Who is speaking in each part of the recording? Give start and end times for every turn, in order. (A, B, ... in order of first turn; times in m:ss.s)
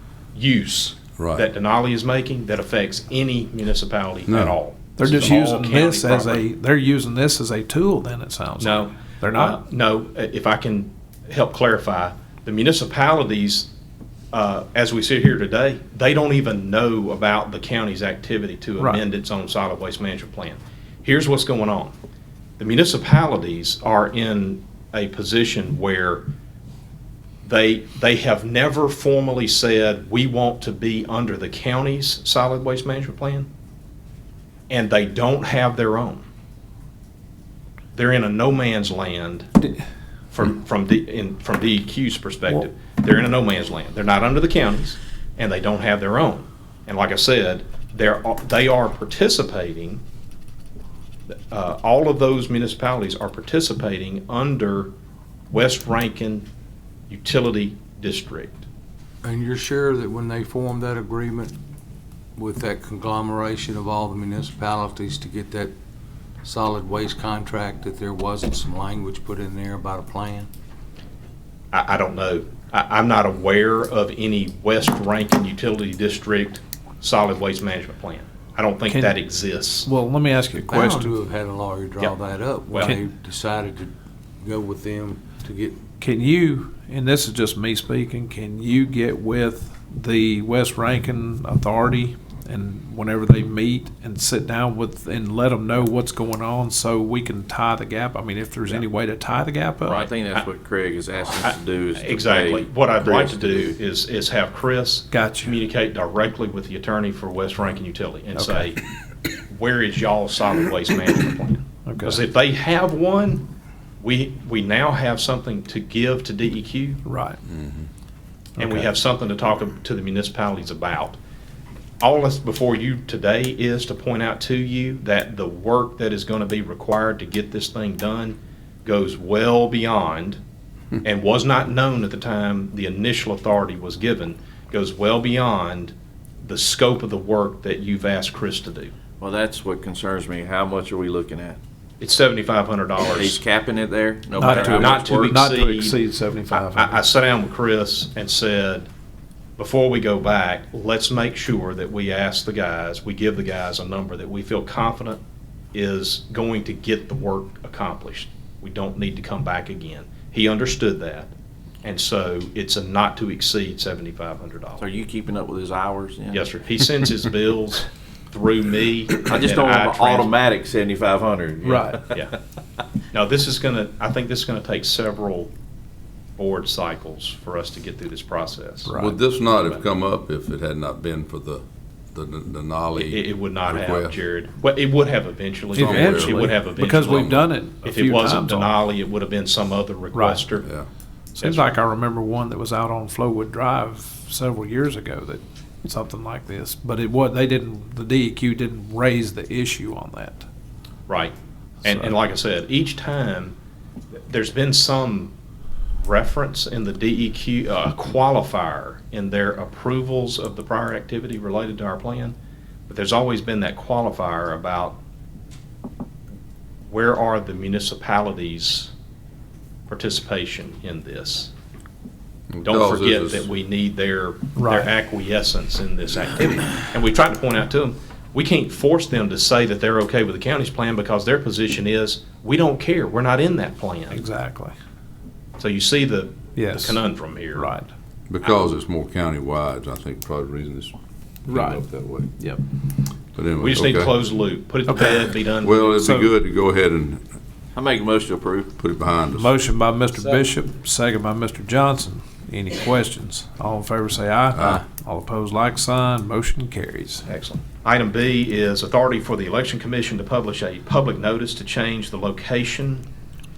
0:00.3-0:06.4 A
0:01.2-0:01.4 B
0:04.3-0:04.6 B
0:05.0-0:09.6 C
0:08.6-0:13.7 A
0:14.3-0:21.9 A
0:18.8-0:19.0 C
0:22.6-0:26.2 A
0:27.4-0:33.5 A
0:34.7-0:36.2 A
0:37.9-0:39.5 A
0:40.3-0:50.0 A
0:51.3-0:54.9 A
0:55.5-0:56.5 A
0:57.1-0:58.6 A
0:59.2-1:01.5 D
1:02.4-1:05.7 D
1:06.4-1:10.5 D
1:11.7-1:19.9 A
1:18.8-1:19.2 C
1:19.8-1:21.1 C
1:20.6-1:25.8 D
1:22.7-1:23.0 A
1:26.0-1:40.1 C
1:39.8-1:43.7 E
1:41.4-1:48.8 A
1:45.1-1:45.6 C
1:48.3-1:48.7 C
1:49.5-1:53.5 A
1:51.9-1:52.2 C
1:54.0-1:57.0 A
1:57.0-1:57.4 C
1:57.5-1:57.9 B
1:58.6-1:58.9 C
1:58.6-2:01.2 A
2:02.0-2:10.4 A
2:11.0-2:18.9 A
2:19.2-2:21.6 E
2:22.0-2:23.4 A
2:23.0-2:25.4 E
2:24.4-2:27.0 C
2:24.5-2:26.0 A
2:26.5-2:28.9 A
2:29.6-2:35.2 A
2:35.7-2:41.3 A
2:41.8-2:44.8 A
2:44.8-2:46.4 E
2:46.3-2:50.3 A
2:49.2-2:51.9 E
2:51.6-2:52.0 C
2:53.1-2:55.5 A
2:56.4-2:58.9 A
2:58.8-2:59.2 C
2:58.9-3:04.2 B
2:59.5-2:59.8 A
3:03.0-3:10.7 A
3:05.7-3:08.7 C
3:05.8-3:07.5 B
3:10.1-3:10.4 C
3:11.4-3:20.4 C
3:11.4-3:11.6 A
3:21.1-3:23.6 A
3:21.8-3:22.1 C
3:24.2-3:25.3 A
3:26.0-3:32.3 A
3:32.9-3:35.0 A
3:36.9-3:38.9 A
3:39.9-3:41.5 A
3:42.5-3:43.5 B
3:42.6-3:54.2 A
3:44.6-3:44.9 C
3:54.1-3:54.7 C
3:55.6-3:57.7 A
3:56.6-3:57.9 C
3:58.3-4:00.9 B
4:01.5-4:01.8 C
4:01.5-4:02.3 B
4:03.3-4:04.1 B
4:03.6-4:06.0 A
4:04.9-4:05.2 C
4:05.6-4:07.2 B
4:06.0-4:06.3 C
4:07.7-4:08.7 E
4:08.8-4:09.5 B
4:09.3-4:17.2 C
4:14.6-4:14.8 B
4:17.2-4:23.0 A